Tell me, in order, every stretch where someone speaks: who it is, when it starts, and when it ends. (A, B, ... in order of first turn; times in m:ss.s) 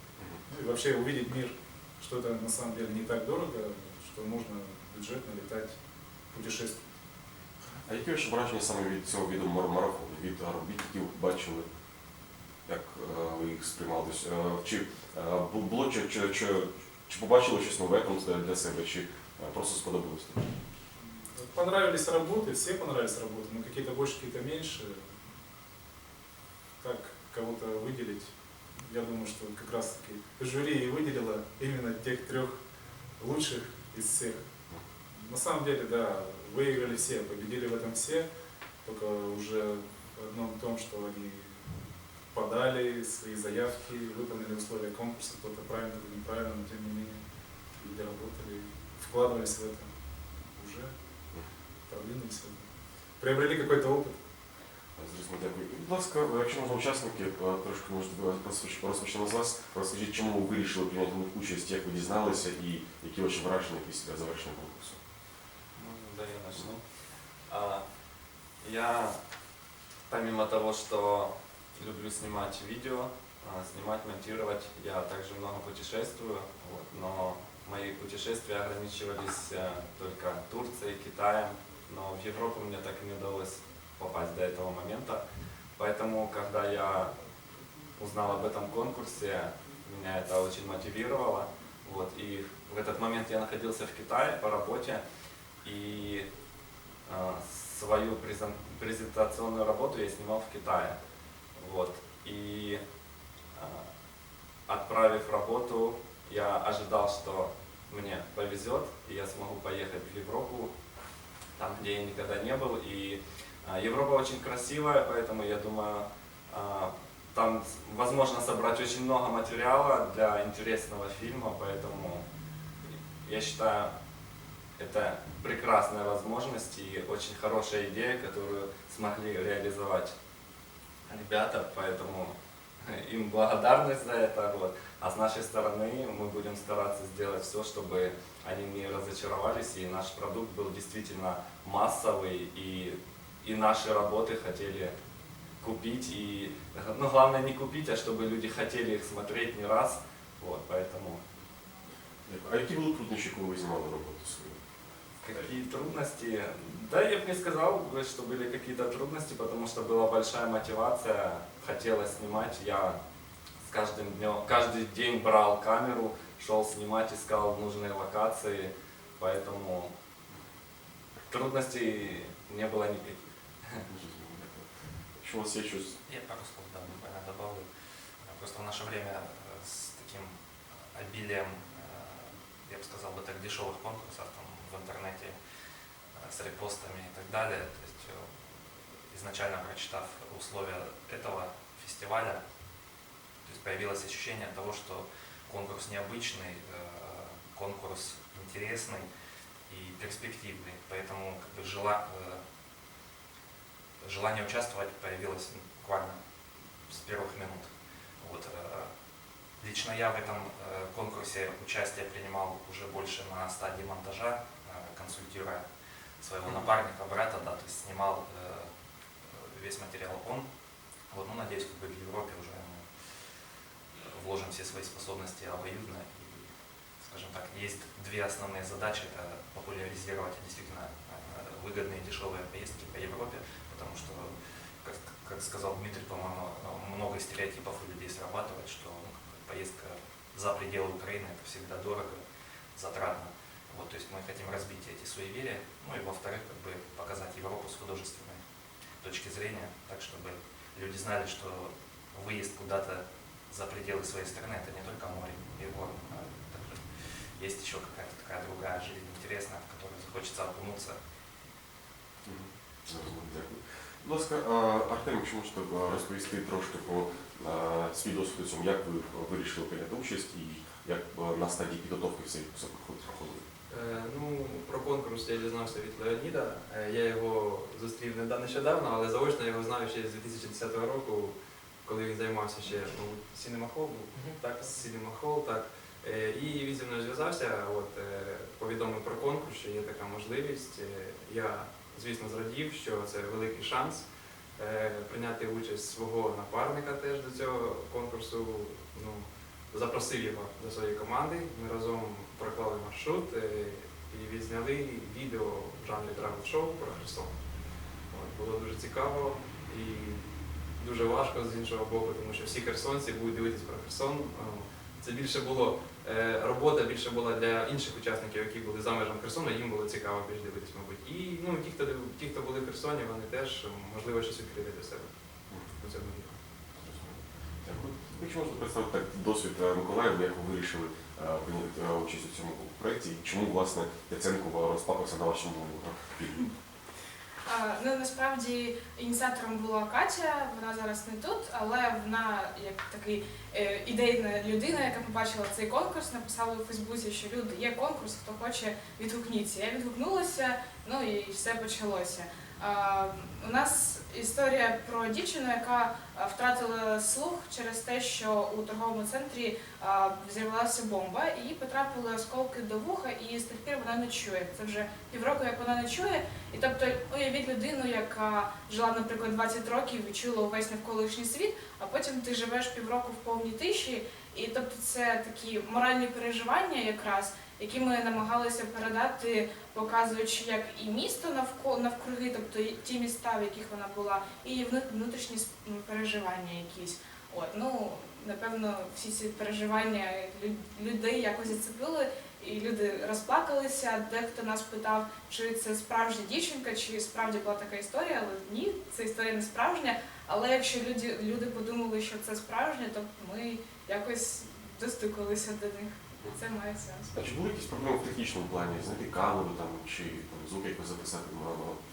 0:00.5-0:05.7 A
0:06.3-0:06.8 A
0:07.8-0:11.6 B
0:12.7-0:20.5 B
0:21.0-0:25.1 A
0:26.8-0:28.3 A
0:28.8-0:32.6 A
0:33.2-0:34.4 A
0:35.1-0:38.2 A
0:38.8-0:41.6 A
0:42.3-0:47.2 A
0:47.8-0:49.9 A
0:50.6-0:50.9 A
0:51.9-0:52.6 A
0:53.2-0:54.2 A
0:55.0-1:05.0 B
1:05.8-1:06.8 C
1:07.4-1:07.8 C
1:08.6-1:09.2 C
1:10.1-1:25.2 C
1:25.8-1:27.1 C
1:28.0-1:35.0 C
1:35.6-1:36.2 C
1:37.0-1:41.0 C
1:41.6-1:42.8 C
1:43.6-1:43.8 C
1:44.7-1:50.7 C
1:51.6-2:02.2 C
2:03.2-2:03.9 C
2:04.8-2:10.1 C
2:11.1-2:24.9 C
2:25.6-2:31.2 C
2:32.2-2:34.6 B
2:35.2-2:43.0 C
2:43.6-2:49.9 C
2:51.3-2:53.8 C
2:53.9-2:56.0 B
2:56.0-2:57.7 D
2:58.2-3:00.3 D
3:00.9-3:05.4 D
3:06.2-3:08.3 D
3:09.1-3:12.4 D
3:13.4-3:19.1 D
3:19.7-3:22.4 D
3:24.0-3:26.2 D
3:26.9-3:27.7 D
3:28.2-3:28.9 D
3:29.6-3:35.6 D
3:36.2-3:38.7 D
3:39.3-3:40.5 D
3:41.1-3:42.9 D
3:44.0-3:46.5 D
3:47.0-3:54.3 D
3:54.8-4:02.2 D
4:02.8-4:08.4 D
4:09.0-4:16.8 D
4:17.4-4:21.0 D
4:22.2-4:33.4 B
4:33.7-4:54.0 E
4:54.6-5:07.3 E
5:08.1-5:10.2 E
5:10.8-5:25.1 E
5:25.5-5:25.8 B
5:25.8-5:26.4 E
5:26.8-5:36.5 B
5:37.4-6:47.2 F
6:47.1-6:51.8 B